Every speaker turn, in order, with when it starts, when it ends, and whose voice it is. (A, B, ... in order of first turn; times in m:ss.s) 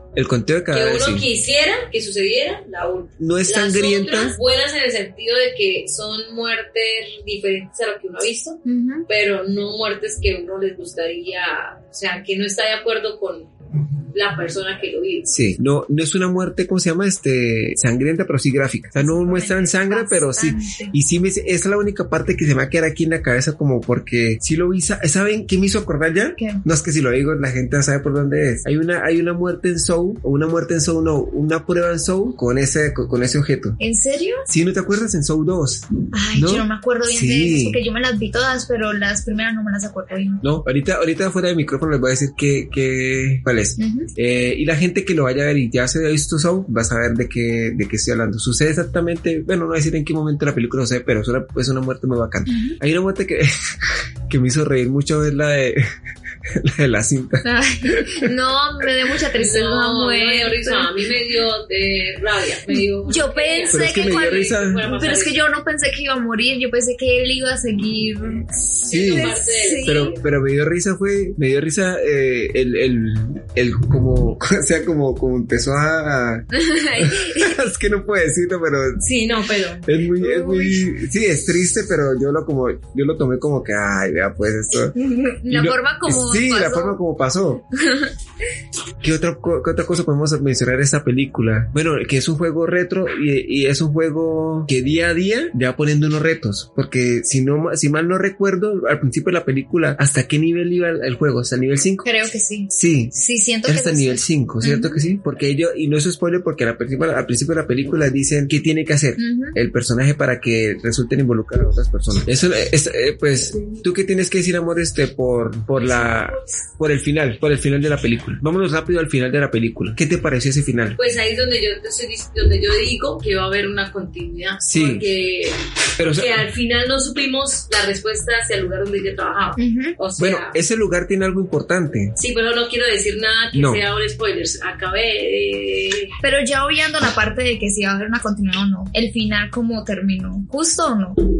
0:00.2-0:01.3 A
0:00.7-0:13.5 B
0:03.2-0:04.4 A
0:08.7-0:09.1 C
0:14.1-0:15.3 B
0:15.3-0:33.8 A
0:19.0-0:21.0 C
0:26.4-0:26.6 C
0:33.8-0:34.5 C
0:34.5-0:37.8 A
0:36.1-0:40.4 C
0:40.4-0:53.5 A
0:43.8-0:44.1 C
0:52.5-0:52.8 C
0:54.3-0:55.8 A
0:56.5-0:58.3 A
0:57.4-1:00.9 C
0:59.4-1:05.4 B
1:02.7-1:10.1 C
1:03.7-1:04.8 A
1:08.8-1:10.2 B
1:08.9-1:19.0 A
1:16.5-1:17.6 C
1:19.0-1:19.9 B
1:19.9-1:25.0 A
1:20.2-1:20.8 C
1:24.9-1:27.0 C
1:25.5-1:27.6 A
1:27.8-1:28.1 C
1:29.0-1:42.1 A
1:42.0-1:45.0 C
1:42.7-1:43.2 A
1:43.7-2:01.0 A
1:49.2-1:49.6 C
1:55.8-1:56.5 B
2:01.0-2:10.6 B
2:04.6-2:05.1 A
2:06.0-2:06.5 A
2:09.6-2:10.0 C
2:10.2-2:12.2 A
2:12.2-2:16.1 B
2:13.5-2:13.8 A
2:16.2-2:21.2 C